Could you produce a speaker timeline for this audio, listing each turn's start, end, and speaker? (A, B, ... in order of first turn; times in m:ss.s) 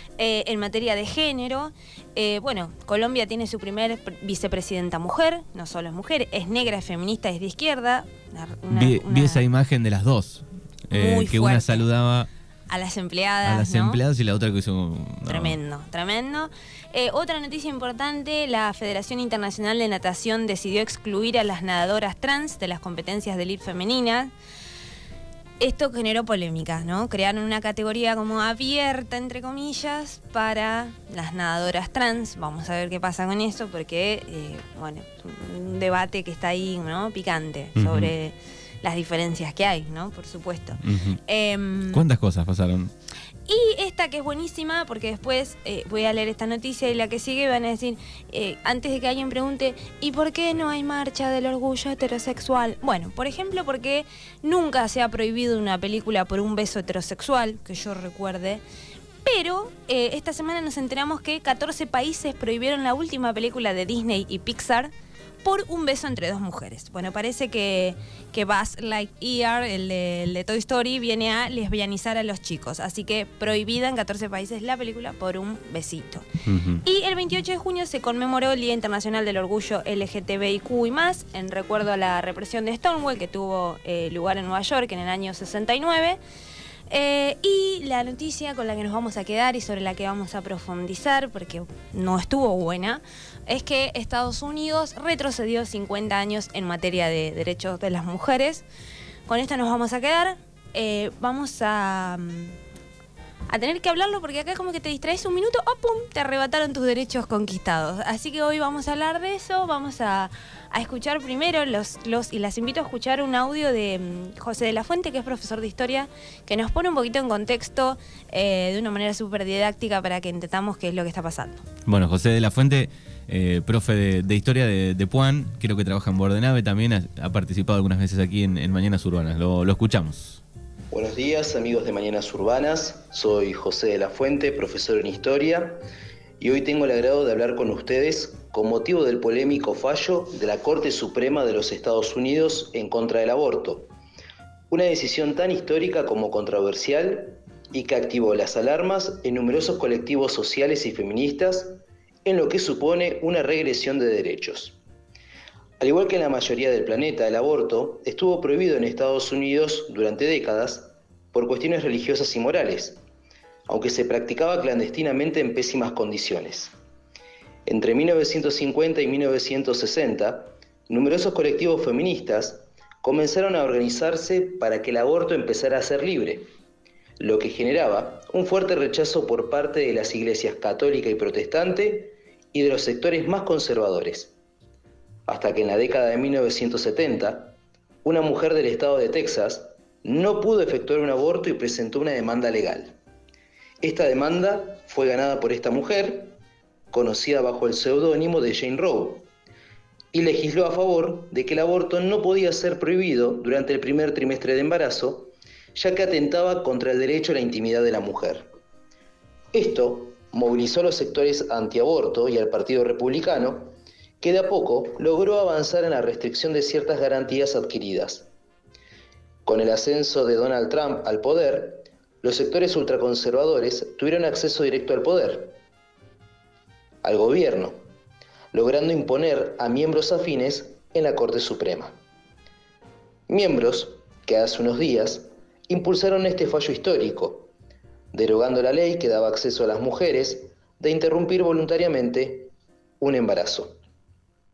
0:00.2-0:09.4 A
0:08.7-0:12.3 B
0:10.9-0:11.9 A
0:12.7-0:14.0 A
0:13.4-0:15.6 B
0:15.3-0:24.3 A
0:25.6-0:42.0 A
0:37.8-0:38.1 B
0:40.8-0:41.2 B
0:41.9-0:42.9 B
0:43.5-0:58.6 A
0:59.2-1:04.9 A
1:05.4-1:16.2 A
1:16.5-1:16.8 B
1:16.8-1:26.2 A
1:26.9-1:38.6 A
1:39.3-1:42.6 A
1:43.5-2:01.6 A
2:01.8-2:10.4 B
2:10.9-2:15.8 C
2:16.4-2:23.9 C
2:24.7-2:34.8 C
2:35.8-2:43.0 C
2:43.7-2:46.7 C
2:47.7-2:56.5 C
2:57.2-3:04.3 C
3:05.3-3:12.9 C
3:13.8-3:16.4 C
3:16.9-3:19.3 C
3:20.1-3:28.5 C
3:29.5-3:38.3 C
3:39.5-3:45.6 C
3:47.0-3:47.8 C
3:48.5-3:51.9 C
3:53.3-3:57.5 C
3:58.1-4:03.8 C